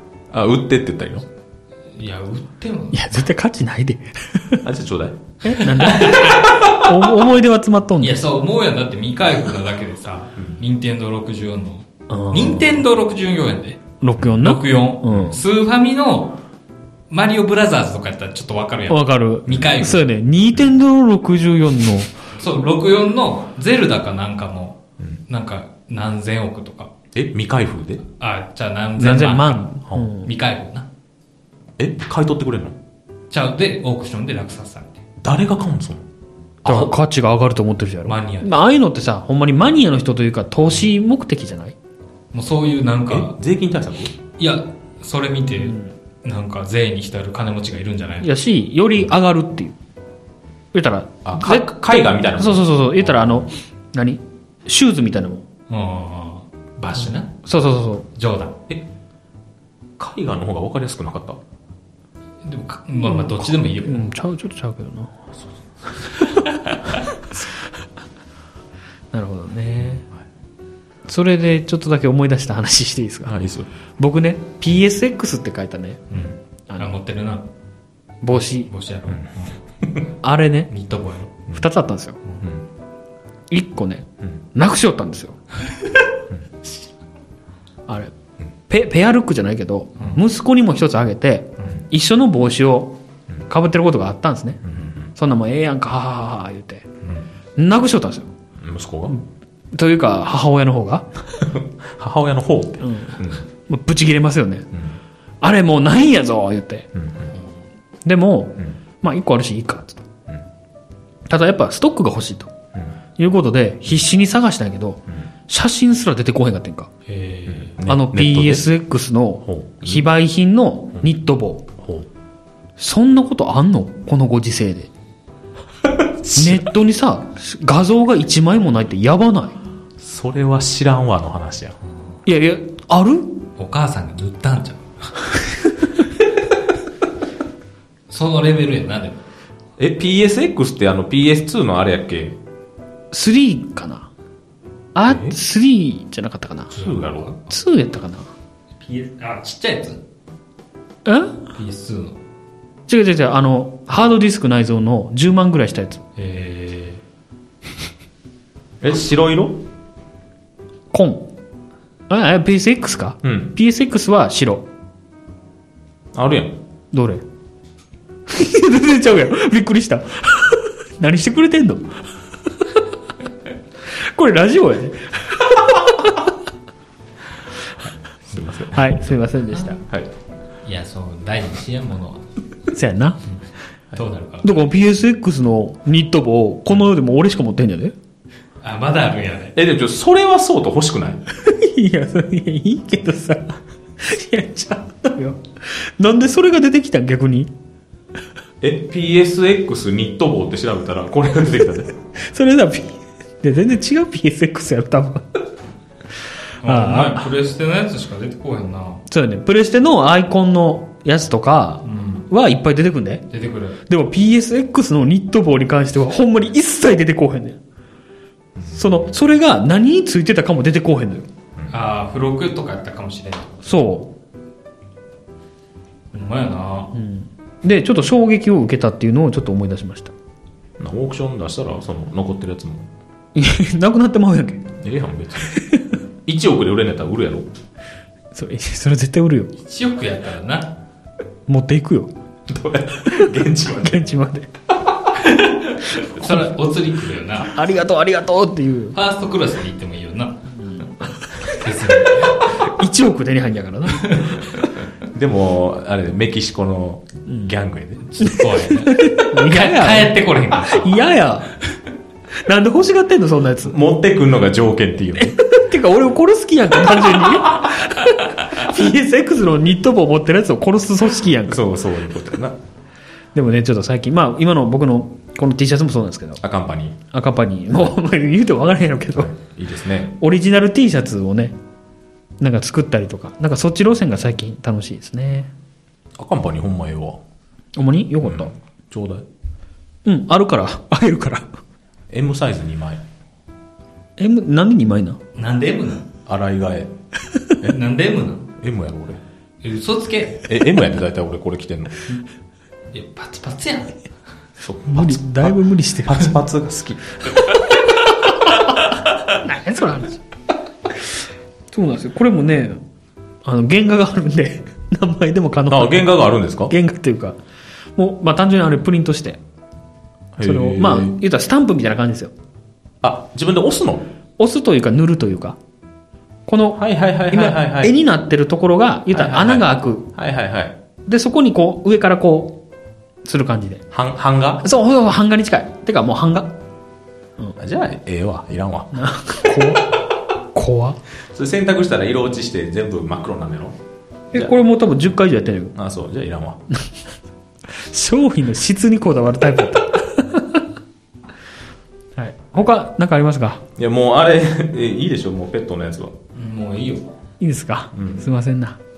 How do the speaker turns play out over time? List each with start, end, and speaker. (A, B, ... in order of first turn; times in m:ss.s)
0:00.3-0:01.2 A
0:01.9-0:03.1 B
0:02.9-0:04.6 C
0:04.6-0:05.2 A
0:05.4-0:08.2 C
0:05.5-0:06.5 B
0:06.4-0:06.8 A
0:08.0-0:13.8 B
0:12.1-0:12.7 C
0:14.0-0:15.4 C
0:14.4-0:16.3 B
0:15.1-0:15.4 A
0:17.1-0:20.0 B
0:18.9-0:22.1 C
0:19.5-0:19.8 A
0:22.4-0:24.8 B
0:25.3-0:26.9 B
0:27.1-0:28.0 A
0:28.2-0:29.6 B
0:29.0-0:30.3 C
0:30.2-0:30.9 B
0:31.8-0:32.8 A
0:33.3-0:35.0 B
0:35.2-0:36.0 A
0:36.6-0:36.9 A
0:36.6-0:41.8 C
0:38.1-0:38.5 B
0:42.3-0:43.3 B
0:43.1-0:44.1 A
0:44.4-0:48.3 B
0:45.6-0:45.9 C
0:48.2-0:49.8 C
0:50.7-0:55.4 C
0:51.2-0:53.5 A
0:55.7-0:57.4 B
0:57.4-0:58.0 C
0:58.1-0:58.6 B
1:00.0-1:01.4 A
1:02.4-1:04.1 B
1:03.0-1:05.1 C
1:06.3-1:06.8 B
1:09.1-1:10.0 C
1:11.1-1:13.4 C
1:13.2-1:13.7 A
1:14.0-1:16.0 C
1:16.1-1:17.4 B
1:18.2-1:18.7 C
1:18.7-1:19.2 B
1:19.1-1:20.0 A
1:20.2-1:20.7 C
1:20.7-1:21.4 B
1:21.5-1:22.2 C
1:23.5-1:25.4 C
1:27.9-1:28.1 C
1:28.7-1:33.0 C
1:33.5-1:34.6 C
1:34.6-1:35.0 A
1:35.1-1:36.9 C
1:37.6-1:38.3 C
1:38.6-1:39.2 A
1:39.7-1:41.1 C
1:41.4-1:43.4 A
1:42.8-1:44.7 C
1:45.4-1:46.9 C
1:46.9-1:47.3 A
1:48.0-1:50.0 C
1:51.3-1:52.5 C
1:53.2-1:56.9 C
1:57.1-1:57.8 B
1:57.5-1:58.7 A
1:57.9-2:01.6 C
1:59.4-2:00.0 A
2:01.8-2:02.1 A
2:02.8-2:04.9 C
2:05.8-2:06.7 A
2:06.4-2:09.6 C
2:10.0-2:11.8 A
2:12.2-2:13.4 C
2:13.6-2:15.1 B
2:18.1-2:19.2 B
2:19.8-2:22.4 A
2:23.1-2:24.1 C
2:24.9-2:26.7 C
2:25.1-2:25.4 A
2:26.7-2:27.4 B
2:26.7-2:27.3 A
2:27.5-2:28.3 C
2:28.8-2:30.0 B
2:31.0-2:31.4 C
2:31.6-2:32.2 B
2:32.9-2:36.0 C
2:36.2-2:37.0 B
2:38.8-2:39.6 A
2:40.9-2:41.3 C
2:42.1-2:44.6 C
2:43.2-2:43.5 A
2:46.1-2:46.6 A
2:46.9-2:47.2 C
2:48.3-2:51.9 C
2:54.0-2:56.2 C
2:57.8-2:59.0 A
2:58.7-2:59.8 C
3:00.6-3:02.2 B
3:02.7-3:03.2 C
3:03.9-3:04.6 B
3:04.4-3:07.9 C
3:08.6-3:09.6 B
3:09.6-3:11.2 A
3:11.4-3:17.5 C
3:18.6-3:21.9 A
3:22.1-3:25.2 C
3:26.6-3:29.0 B
3:26.6-3:27.3 C
3:29.1-3:33.2 C
3:31.8-3:32.3 B
3:33.3-3:33.8 B
3:33.9-3:37.6 C
3:38.6-3:38.9 A
3:38.7-3:41.2 C
3:41.7-3:43.6 B
3:43.6-3:44.1 C
3:46.1-3:46.9 B
3:46.9-3:50.1 C
3:50.8-3:52.9 A
3:53.3-3:54.7 C
3:54.8-3:55.6 A
3:55.4-3:55.9 C
3:56.2-3:57.5 A
3:58.3-3:59.5 C
3:59.6-4:00.7 B
4:01.5-4:02.1 C
4:02.5-4:04.1 A
4:03.0-4:04.5 C
4:05.2-4:07.5 B
4:07.4-4:09.0 C
4:08.9-4:10.4 B
4:10.7-4:11.7 C
4:11.4-4:12.4 B
4:12.6-4:14.4 C
4:14.0-4:14.3 B
4:15.0-4:18.1 A
4:18.0-4:21.0 B
4:18.2-4:21.5 C
4:22.4-4:23.7 C
4:23.6-4:25.4 A
4:25.2-4:31.6 C
4:31.4-4:32.6 A
4:33.3-4:36.4 C
4:36.4-4:37.0 A
4:37.1-4:39.3 C
4:39.1-4:40.1 A
4:40.2-4:41.6 C
4:42.4-4:45.5 C
4:46.2-4:47.2 A
4:47.8-4:48.5 C
4:48.2-4:49.2 A
4:50.0-4:51.5 C
4:52.1-4:53.0 A
4:54.2-4:55.2 C
4:55.4-4:56.1 B
4:56.2-4:56.9 A
4:57.6-4:58.5 B
4:58.6-4:59.2 A
4:59.6-5:00.6 B
5:00.4-5:02.0 A
5:02.9-5:04.0 B
5:04.6-5:07.3 A
5:04.9-5:06.4 C
5:08.5-5:08.7 C
5:09.3-5:10.2 C
5:11.7-5:12.8 C
5:13.4-5:16.2 C
5:15.7-5:16.7 A
5:16.7-5:17.4 C
5:18.0-5:19.4 C
5:20.3-5:21.1 A
5:20.4-5:22.3 C
5:23.0-5:24.0 A
5:24.4-5:25.6 C
5:26.5-5:30.0 C
5:26.7-5:27.9 A
5:29.1-5:30.8 A
5:31.0-5:32.6 C
5:33.2-5:33.8 C
5:33.9-5:34.6 A
5:34.6-5:36.5 C
5:37.6-5:39.0 A
5:38.9-5:39.9 C
5:40.5-5:41.0 C
5:41.3-5:43.8 A
5:44.3-5:45.7 C
5:45.7-5:46.6 A
5:47.7-5:50.6 C
5:52.2-5:53.6 C
5:53.8-5:56.1 A
5:56.3-5:57.1 B
5:57.4-5:58.8 C
5:57.9-5:58.2 A